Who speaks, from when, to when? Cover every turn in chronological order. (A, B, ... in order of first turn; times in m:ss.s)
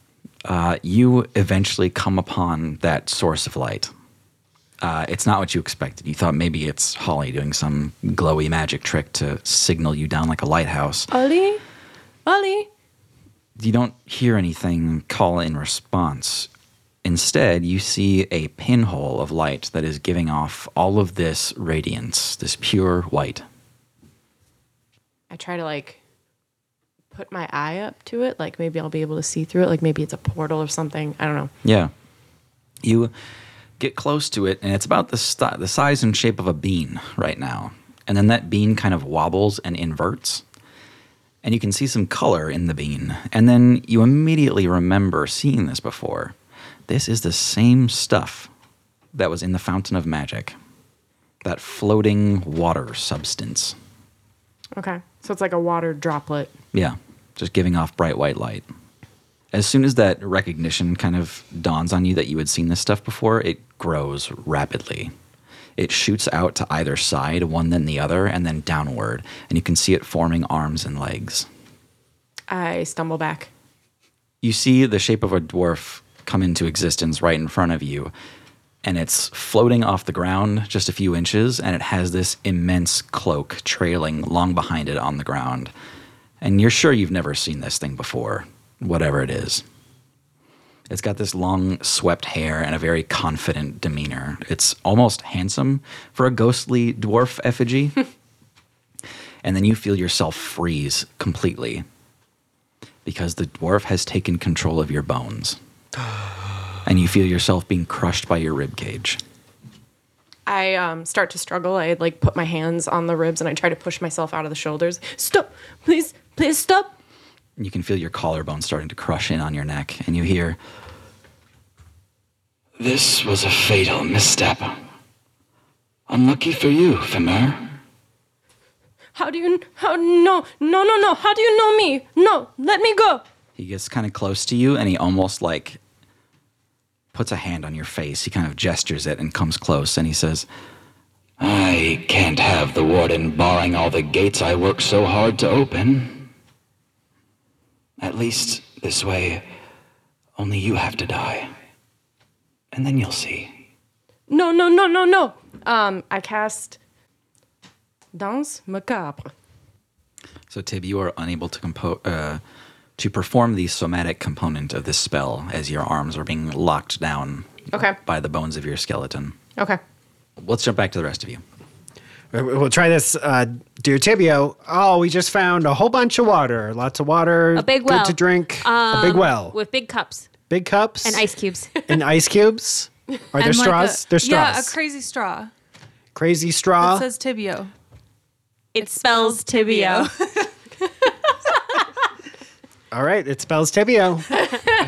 0:00.4-0:03.9 A
0:04.8-0:11.1 A
0:11.1-0:11.6 B
0:12.2-0:12.7 B
0:13.6-0:16.5 A
0:17.0-0:23.4 A
0:25.3-0:26.0 B
0:27.1-0:31.5 B
0:31.6-0:31.9 A
0:32.8-0:33.1 A
0:33.8-0:40.4 A
0:41.4-0:46.3 A
0:46.9-0:48.5 A
0:49.1-0:50.5 A
0:51.4-0:53.8 A
0:54.8-0:56.5 B
0:56.7-0:58.6 A
0:59.5-1:05.1 A
1:05.8-1:11.5 A
1:12.5-1:13.5 B
1:14.4-1:18.1 A
1:18.8-1:25.7 A
1:26.4-1:29.6 A
1:30.9-1:38.0 A
1:39.4-1:41.8 A
1:43.0-1:45.6 A
1:46.8-1:49.2 A
1:50.4-1:57.0 B
1:57.6-2:00.6 A
2:02.8-2:04.8 A
2:06.1-2:07.8 A
2:09.2-2:13.2 B
2:13.6-2:15.8 A
2:17.1-2:20.5 A
2:21.4-2:26.3 A
2:28.0-2:29.5 A
2:30.4-2:31.5 A
2:32.7-2:33.5 A
2:34.3-2:36.8 B
2:38.1-2:39.3 B
2:40.5-2:42.4 A
2:43.0-2:49.4 A
2:47.7-2:48.0 B
2:50.4-2:51.4 A
2:52.3-2:59.6 C
2:57.5-3:00.3 D
3:00.5-3:01.2 C
3:01.0-3:01.7 D
3:01.9-3:04.8 C
3:03.4-3:05.5 E
3:06.1-3:07.1 C
3:06.8-3:07.7 E
3:08.7-3:10.1 D
3:08.8-3:10.5 E
3:12.9-3:14.3 C